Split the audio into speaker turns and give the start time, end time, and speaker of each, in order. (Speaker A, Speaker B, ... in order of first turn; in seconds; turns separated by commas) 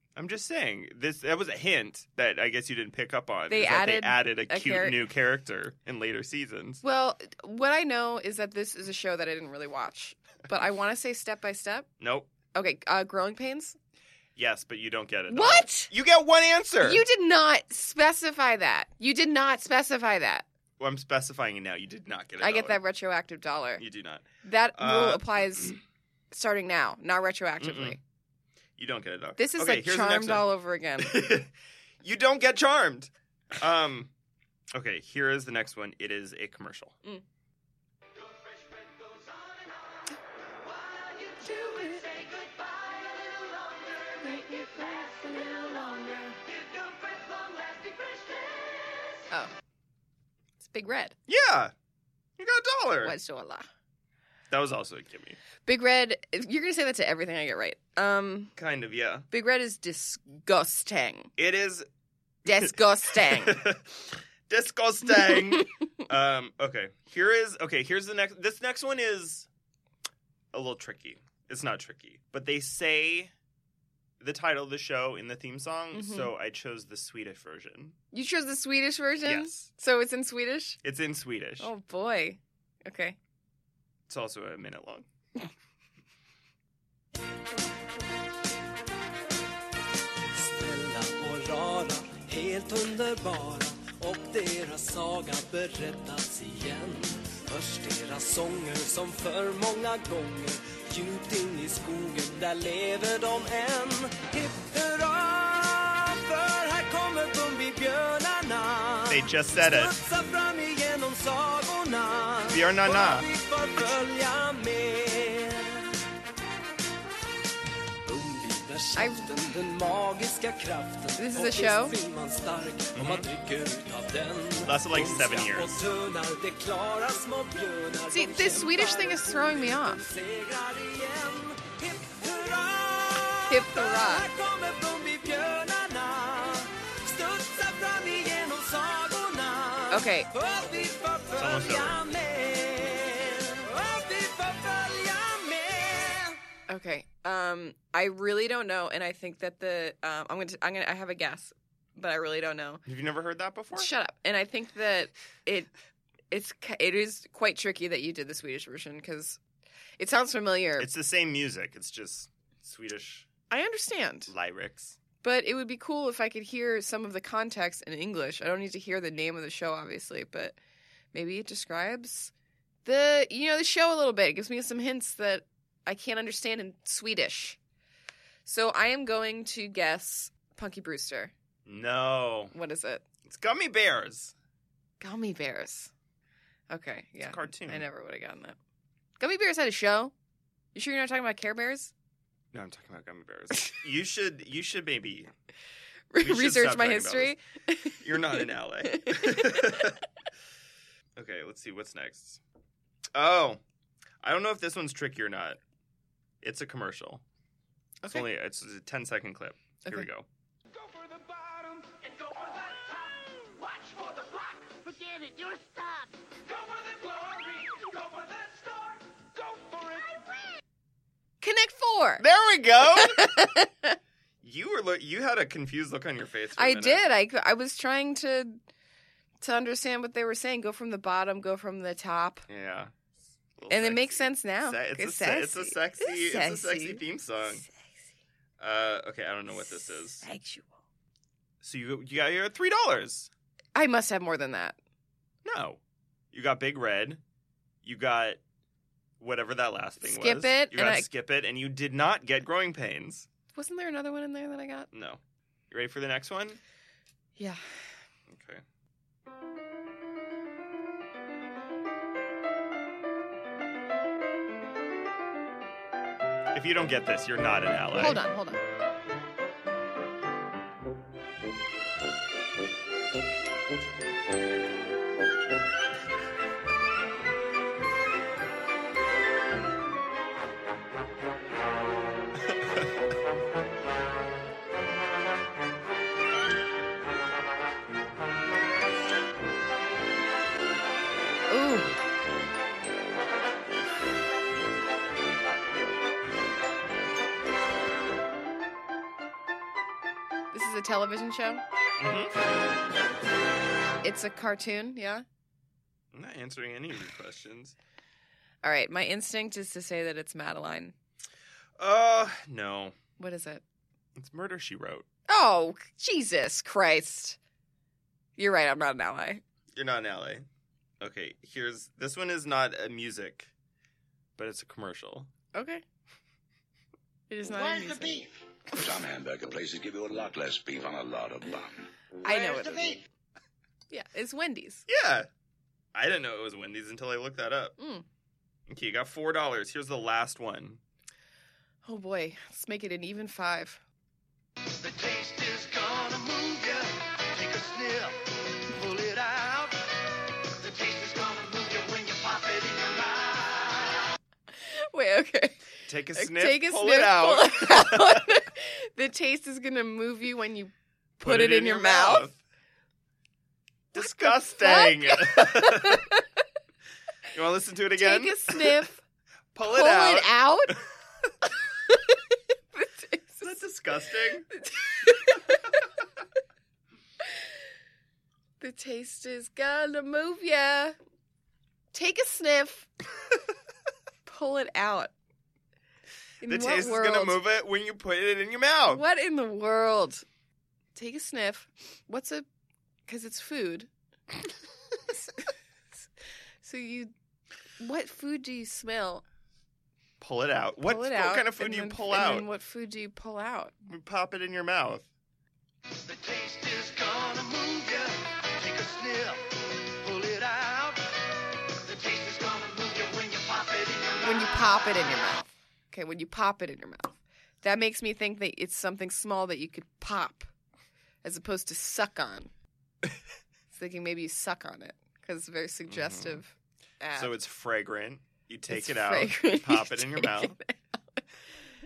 Speaker A: 0.2-6.8, Speaker B: 3.5-5.0, Speaker B: 6.8-11.9, Speaker A: 12.0-12.3, Speaker B: 12.5-13.8, Speaker A: 14.4-17.1, Speaker B: 15.3-15.9, Speaker B: 16.8-20.5, Speaker A: 20.8-22.8, Speaker B: 22.4-23.8, Speaker A: 23.8-25.7, Speaker B: 24.4-25.8, Speaker B: 26.3-28.0, Speaker A: 27.6-28.0, Speaker A: 28.8-34.1, Speaker B: 29.4-31.3, Speaker A: 34.7-37.0, Speaker C: 38.2-49.3, Speaker B: 50.6-51.2, Speaker A: 51.3-51.7, Speaker A: 52.4-53.2, Speaker B: 53.0-53.7, Speaker A: 54.5-55.4, Speaker B: 55.6-58.5, Speaker A: 58.6-59.3, Speaker B: 59.3-61.3, Speaker A: 61.4-61.9, Speaker B: 62.5-63.6, Speaker A: 62.5-69.5, Speaker A: 70.5-73.3, Speaker A: 74.2-78.0, Speaker B: 75.9-76.3, Speaker B: 78.1-80.8, Speaker A: 79.2-79.7, Speaker A: 80.8-81.7, Speaker B: 81.6-83.2, Speaker A: 84.1-85.1, Speaker D: 90.2-115.9, Speaker A: 109.1-110.0, Speaker A: 112.5-113.3, Speaker D: 118.0-146.4, Speaker B: 119.0-119.3, Speaker B: 121.2-122.0, Speaker A: 123.0-123.3, Speaker A: 124.6-125.8, Speaker B: 128.1-130.0, Speaker B: 133.5-134.3, Speaker B: 139.9-140.3, Speaker A: 141.4-142.0, Speaker B: 146.7-152.8, Speaker A: 152.9-153.9, Speaker B: 153.7-155.7, Speaker B: 156.3-159.4, Speaker B: 160.0-160.9, Speaker A: 160.8-163.3, Speaker B: 163.5-164.3, Speaker A: 164.3-165.0, Speaker B: 165.2-170.6, Speaker B: 171.1-172.3, Speaker B: 172.8-177.6, Speaker B: 178.4-181.3, Speaker A: 181.7-182.5, Speaker B: 182.5-183.1, Speaker A: 183.2-184.3, Speaker B: 185.0-185.9, Speaker B: 186.7-188.6, Speaker A: 187.2-187.9, Speaker B: 189.2-190.1, Speaker B: 190.7-191.9, Speaker A: 192.5-195.3, Speaker B: 196.1-200.0, Speaker A: 196.2-197.4, Speaker A: 198.0-200.0, Speaker A: 201.2-202.4, Speaker A: 203.1-203.6, Speaker A: 204.2-205.6, Speaker A: 206.4-207.2, Speaker B: 208.0-208.3, Speaker A: 208.1-210.3, Speaker C: 210.7-220.6, Speaker B: 221.4-222.2, Speaker A: 222.2-223.3, Speaker B: 222.9-224.0, Speaker A: 224.4-227.1, Speaker B: 226.6-228.6, Speaker B: 229.4-232.5, Speaker A: 232.5-232.9, Speaker A: 233.6-237.7, Speaker B: 233.7-237.9, Speaker A: 238.6-240.3, Speaker B: 239.7-240.8, Speaker A: 241.6-243.3, Speaker B: 243.8-244.8, Speaker A: 245.4-245.8, Speaker A: 246.3-247.2, Speaker A: 247.8-248.4, Speaker A: 249.2-253.3, Speaker B: 250.0-251.1, Speaker B: 253.5-254.9, Speaker A: 254.9-256.6, Speaker B: 257.4-257.8, Speaker A: 258.3-258.6, Speaker A: 266.5-268.2, Speaker B: 267.9-268.6, Speaker B: 291.5-291.9, Speaker B: 300.5-301.6, Speaker A: 302.0-302.4, Speaker B: 304.0-305.2, Speaker A: 306.1-307.8, Speaker B: 308.6-310.9, Speaker A: 311.8-313.0, Speaker B: 313.2-313.6, Speaker A: 314.2-315.1, Speaker B: 315.3-317.4, Speaker B: 318.4-319.4, Speaker A: 319.7-320.5, Speaker A: 321.0-323.5, Speaker A: 324.4-325.3, Speaker B: 325.5-325.8, Speaker B: 327.3-328.2, Speaker C: 327.5-328.3, Speaker E: 328.7-331.9, Speaker B: 332.2-333.0, Speaker C: 332.3-333.0, Speaker E: 332.6-333.0, Speaker B: 333.9-334.9, Speaker A: 334.9-335.3, Speaker A: 335.9-337.8, Speaker B: 337.8-338.1, Speaker A: 338.7-340.8, Speaker B: 341.9-343.8, Speaker C: 344.7-349.9, Speaker C: 350.5-354.1, Speaker B: 354.6-355.6, Speaker A: 355.9-358.2, Speaker B: 356.1-362.3, Speaker A: 361.2-362.4, Speaker A: 363.9-366.1, Speaker B: 364.0-366.2, Speaker A: 367.3-368.9, Speaker B: 368.0-369.0, Speaker A: 369.5-370.8, Speaker B: 369.6-370.8, Speaker B: 371.9-372.2, Speaker B: 372.7-373.6, Speaker A: 373.4-374.5, Speaker B: 374.5-375.8, Speaker B: 378.6-381.0, Speaker B: 381.9-382.9, Speaker B: 384.3-385.1, Speaker B: 386.4-387.4, Speaker A: 386.4-389.0, Speaker B: 388.9-390.2, Speaker B: 390.9-392.5, Speaker B: 393.1-393.9, Speaker B: 395.1-395.5, Speaker B: 396.6-397.1, Speaker B: 397.8-399.2, Speaker A: 400.2-402.5, Speaker B: 400.8-403.7, Speaker A: 403.8-405.1, Speaker C: 406.0-415.1, Speaker B: 414.2-420.5, Speaker B: 421.2-422.5, Speaker B: 423.7-427.4, Speaker A: 425.9-426.4, Speaker A: 427.1-430.6, Speaker B: 428.7-431.2